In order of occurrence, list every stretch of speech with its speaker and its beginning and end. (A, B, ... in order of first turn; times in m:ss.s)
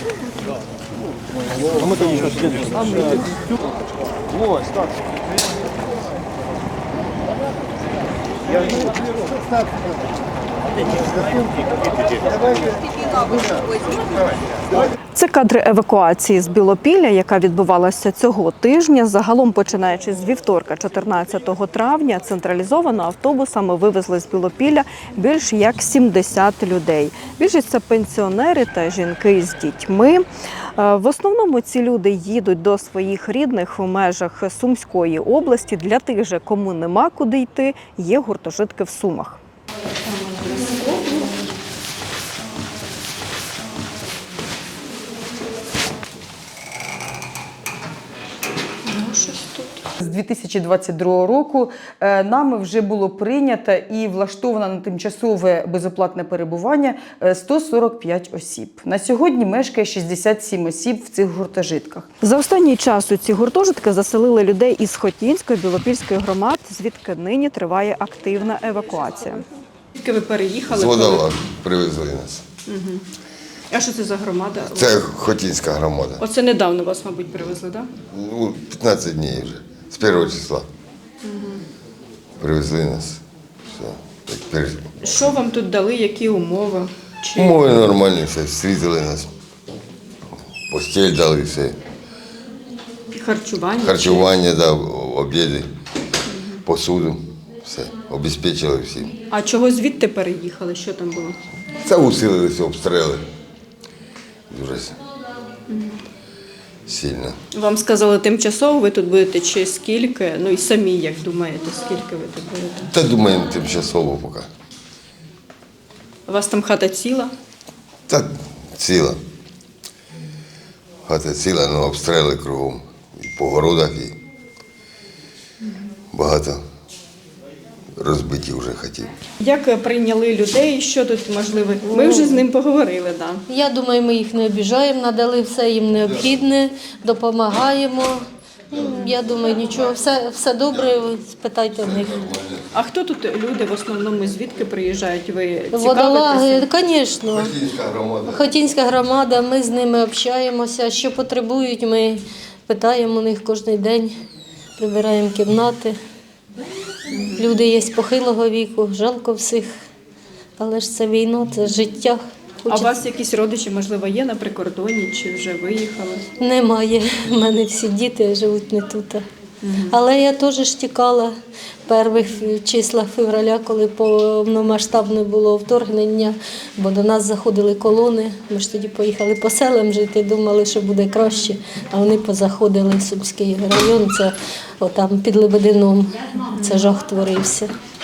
0:02.5-0:03.4 A
0:15.1-0:30.2 A
0:30.8-0:39.4 A
0:40.1-0:41.4 A
0:48.8-0:49.8 A
0:50.0-1:02.1 B
1:02.2-1:11.3 A
1:10.7-1:12.4 C
1:12.7-1:13.0 A
1:13.7-1:15.0 A
1:14.7-1:16.2 C
1:16.2-1:17.9 A
1:18.0-1:20.7 C
1:21.2-1:21.6 A
1:22.4-1:24.8 C
1:25.0-1:27.9 A
1:27.4-1:29.3 C
1:30.7-1:31.8 C
1:33.1-1:34.3 A
1:33.8-1:35.7 C
1:36.3-1:36.6 A
1:36.6-1:39.2 C
1:39.3-1:41.4 A
1:41.8-1:43.2 C
1:44.5-1:45.0 C
1:45.7-1:46.0 A
1:46.9-1:47.4 C
1:47.5-1:52.9 A
1:52.9-1:54.5 C
1:56.3-1:57.3 A
1:58.1-1:59.2 C
2:01.1-2:04.2 C
2:06.1-2:06.6 C
2:08.0-2:09.1 C
2:09.4-2:13.4 A
2:11.9-2:12.4 D
2:13.5-2:22.3 D
2:20.7-2:21.0 C
2:21.8-2:22.6 C
2:22.7-2:26.7 A
2:25.7-2:27.5 D
2:27.3-2:28.4 C
2:28.3-2:34.2 D
2:34.8-2:36.0 D
2:37.1-2:37.5 A
2:37.4-2:39.7 D
2:40.6-2:42.9 D
2:42.7-2:46.3 A
2:46.4-2:49.2 D
2:49.6-2:50.0 A
2:49.9-2:51.3 D
2:51.9-3:07.7 D
3:06.5-3:06.9 A